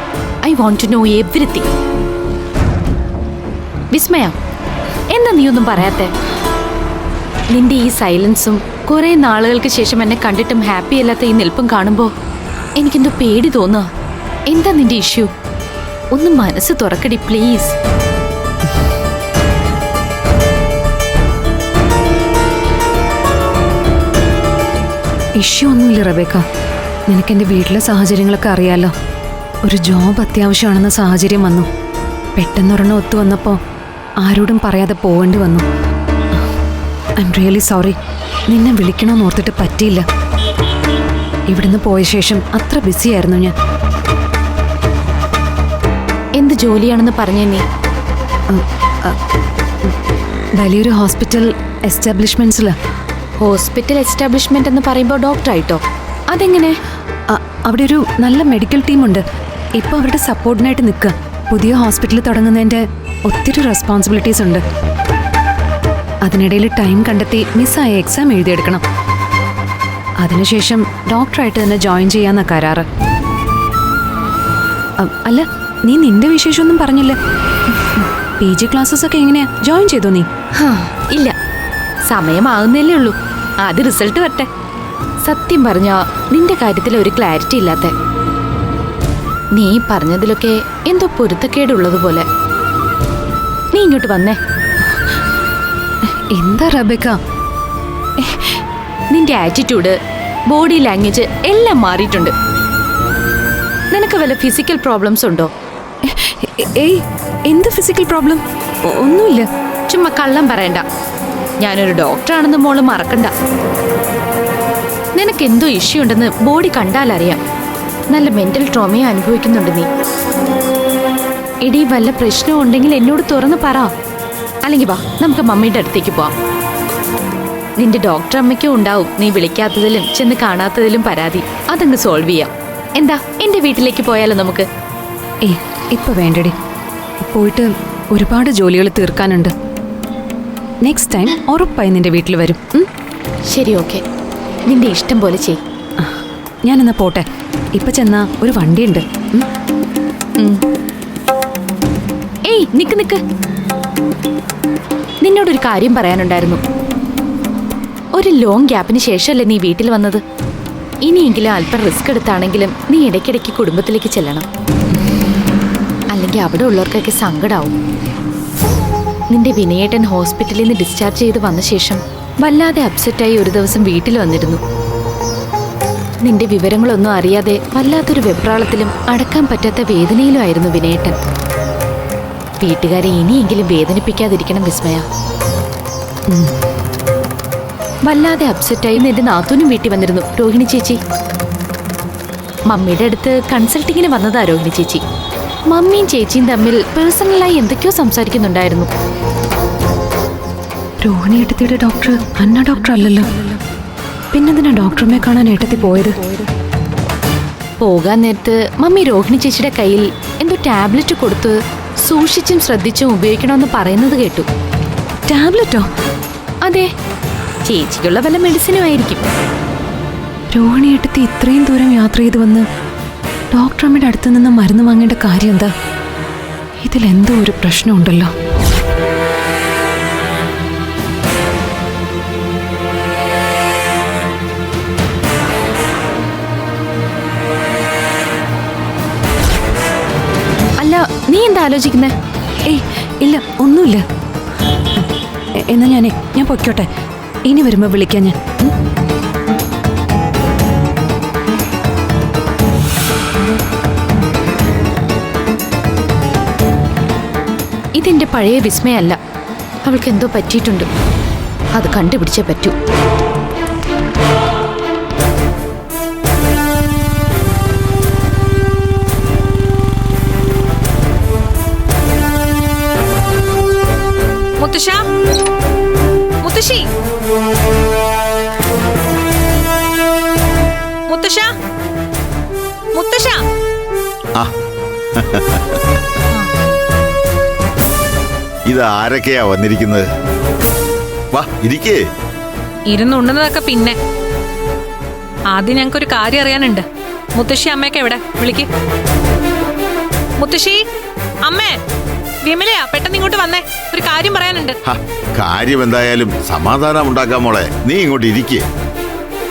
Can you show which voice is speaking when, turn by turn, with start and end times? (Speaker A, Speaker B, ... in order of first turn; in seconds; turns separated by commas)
Speaker A: 0.4-1.6, Speaker A: 3.9-4.3, Speaker A: 5.1-6.1, Speaker A: 7.5-12.1, Speaker A: 12.8-13.8, Speaker A: 14.5-15.3, Speaker A: 16.1-17.7, Speaker B: 25.4-26.4, Speaker B: 27.1-28.9, Speaker B: 29.6-31.7, Speaker B: 32.4-33.6, Speaker B: 34.2-35.6, Speaker B: 37.2-38.0, Speaker B: 38.5-40.0, Speaker B: 41.5-43.5, Speaker A: 46.4-47.6, Speaker B: 48.5-49.2, Speaker B: 50.6-52.7, Speaker A: 53.4-56.7, Speaker B: 57.3-59.2, Speaker B: 59.8-64.6, Speaker B: 66.2-68.8, Speaker B: 70.2-72.8, Speaker B: 75.0-77.2, Speaker B: 78.4-80.3, Speaker A: 80.6-81.3, Speaker A: 82.1-84.5, Speaker A: 85.2-87.9, Speaker A: 89.5-92.2, Speaker A: 93.7-94.4, Speaker B: 96.3-97.2, Speaker B: 98.2-98.5, Speaker A: 99.1-99.9, Speaker A: 100.5-102.3, Speaker A: 103.9-105.5, Speaker B: 106.1-109.5, Speaker A: 109.9-110.8, Speaker A: 111.6-113.3, Speaker A: 115.2-117.4, Speaker A: 118.1-119.9, Speaker A: 121.6-123.9, Speaker A: 124.6-126.3, Speaker A: 127.8-134.7, Speaker B: 135.4-136.5, Speaker B: 137.2-139.5, Speaker B: 140.8-142.9, Speaker A: 143.5-144.0, Speaker A: 144.7-145.6, Speaker B: 146.0-147.2, Speaker B: 147.7-149.5, Speaker A: 152.5-153.2, Speaker A: 155.2-156.6, Speaker A: 158.2-160.2, Speaker A: 161.1-164.4, Speaker A: 166.1-167.7, Speaker A: 169.3-174.6, Speaker A: 176.2-181.2, Speaker A: 182.6-185.0, Speaker A: 188.1-191.0, Speaker A: 192.7-195.0, Speaker A: 195.7-198.9, Speaker B: 201.0-203.3, Speaker B: 204.3-206.2, Speaker A: 207.8-214.4, Speaker B: 215.3-215.9, Speaker A: 217.7-219.2, Speaker B: 220.5-222.6, Speaker B: 223.5-225.7, Speaker B: 226.8-228.3, Speaker A: 240.8-242.1, Speaker B: 242.7-244.0, Speaker B: 245.7-246.9, Speaker B: 247.5-248.6, Speaker A: 258.0-259.2, Speaker A: 259.9-260.9, Speaker A: 261.7-262.7, Speaker C: 274.6-275.0, Speaker C: 276.4-276.8, Speaker C: 281.1-281.5, Speaker C: 282.9-283.4, Speaker D: 285.2-285.4, Speaker D: 288.7-290.1, Speaker D: 291.3-292.0, Speaker C: 292.9-293.9, Speaker C: 295.5-296.8, Speaker C: 297.4-298.7, Speaker C: 300.4-300.8, Speaker C: 301.5-301.8, Speaker C: 302.4-304.8, Speaker D: 304.9-308.6